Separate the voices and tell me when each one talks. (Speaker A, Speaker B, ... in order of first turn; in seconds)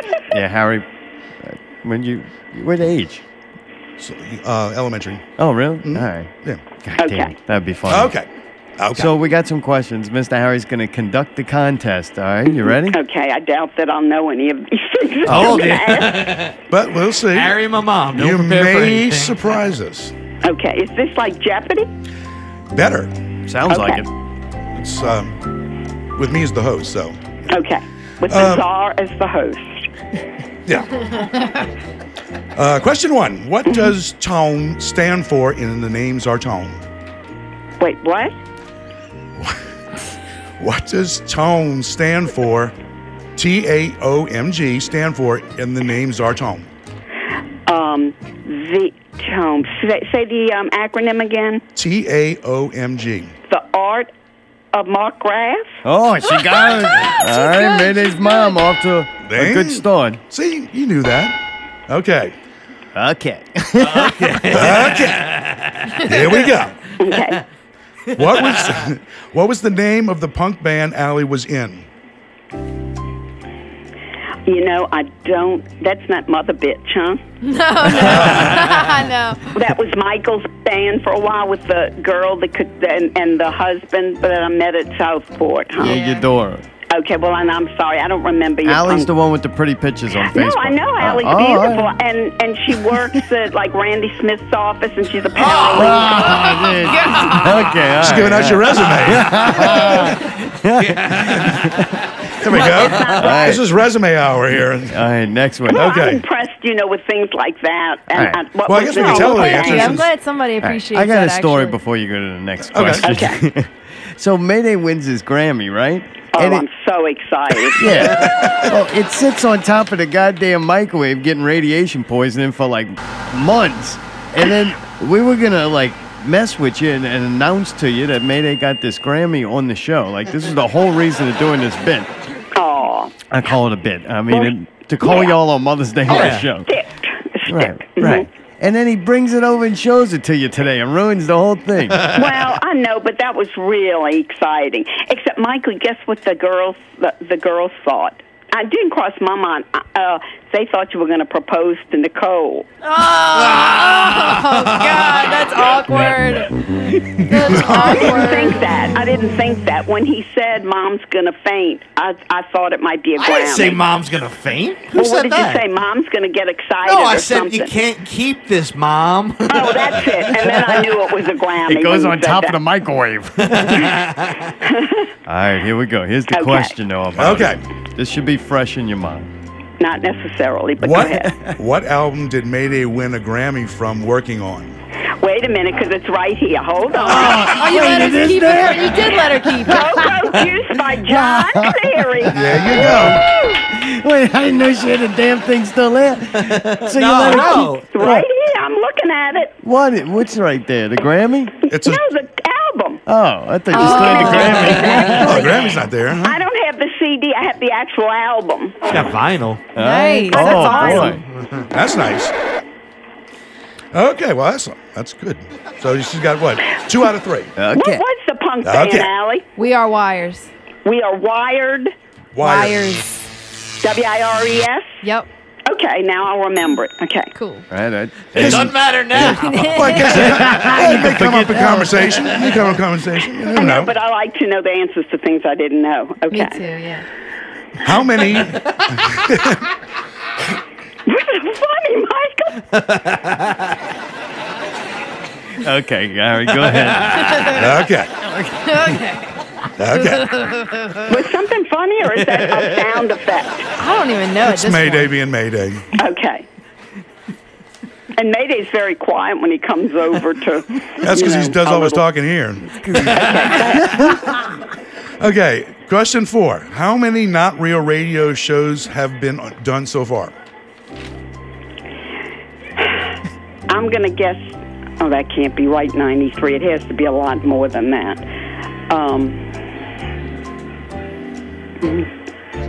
Speaker A: 0.3-0.9, 1.4-3.2, 5.4-6.3, 6.8-8.1, 8.9-13.0, 15.3-15.6, 23.5-24.1, 55.8-60.2, 63.0-64.5, 85.8-86.6, 88.6-91.9, 95.7-102.0, 103.0-103.6, 104.5-105.9, 108.1-108.5, 110.6-116.7, 117.7-132.1, 133.3-136.7, 137.4-142.2, 171.6-173.9, 175.3-179.3, 181.0-181.6, 187.0-190.3, 190.9-198.3, 199.6-201.5, 203.1-205.6, 209.7-211.2, 217.6-218.1, 227.7-232.3, 245.6-247.7, 248.2-249.0, 262.8-264.2
Speaker B: 4.0-5.2, 5.8-6.6, 7.9-9.1, 15.3-15.6, 16.7-17.6, 18.1-20.1, 22.7-23.1, 24.7-25.4, 26.2-27.4, 28.3-28.6, 30.7-31.0, 32.5-36.8, 40.6-42.7, 43.4-46.7, 51.7-53.3, 59.2-61.4, 61.9-62.3, 64.5-65.3, 66.0-66.9, 68.1-71.9, 78.0-78.6, 98.0-100.1, 102.4-105.0, 105.7-106.2, 108.7-110.1, 112.7-113.1, 118.1-118.7, 177.2-177.6, 180.8-184.8, 187.1-187.4, 192.3-193.2, 201.7-202.1, 205.2-206.4, 211.7-212.3, 213.9-217.5, 218.6-219.1, 222.3-222.9, 228.4-233.9, 237.8-239.6, 247.5-248.1, 249.8-250.3, 254.4-255.9, 261.0-263.3, 265.2-270.3
Speaker C: 7.0-7.3, 12.9-16.4, 20.4-21.9, 23.7-24.1, 27.5-29.9, 33.7-33.9, 37.8-38.3, 47.7-51.6, 53.5-54.1, 54.7-55.8, 67.0-67.4, 74.5-77.2, 79.5-86.0, 86.9-89.1, 90.3-96.0, 102.5-103.6, 105.7-110.0, 113.0-113.4, 116.3-118.0, 132.6-133.1, 134.3-135.4, 136.6-138.3, 142.1-152.7, 157.8-163.8, 164.9-167.7, 169.5-172.6, 174.7-175.1, 176.3-176.7, 179.8-181.4, 185.2-187.5, 189.7-193.6, 197.9-199.5, 201.7-203.0, 203.7-208.9, 210.3-211.2, 217.7-219.5, 220.8-221.9, 223.8-224.9, 225.7-227.3, 233.5-236.6, 241.1-242.6, 251.1-253.7, 256.0-256.5, 258.1-262.1, 263.1-264.1, 273.7-278.2, 278.9-279.4, 281.8-282.1
Speaker D: 15.3-16.6, 17.3-19.6, 63.8-66.4, 68.3-68.8, 95.4-96.6, 98.8-100.1, 100.8-101.9, 102.5-103.2, 136.1-136.5, 153.2-155.8, 157.7-158.0, 163.2-165.7, 166.9-170.9, 173.4-174.5, 196.4-197.9, 208.9-209.6, 211.2-211.7, 228.3-230.8, 242.7-243.7, 246.6-247.4, 252.3-252.8
Speaker E: 56.3-58.6, 77.4-79.5, 85.8-86.3, 96.3-97.5, 108.9-111.8, 152.8-158.7, 187.2-189.9, 203.7-205.0, 209.8-211.2, 219.6-220.5, 222.4-223.2, 225.0-225.3, 227.3-227.7, 229.2-230.3, 236.3-237.1, 248.6-249.3, 250.0-251.1, 253.8-255.1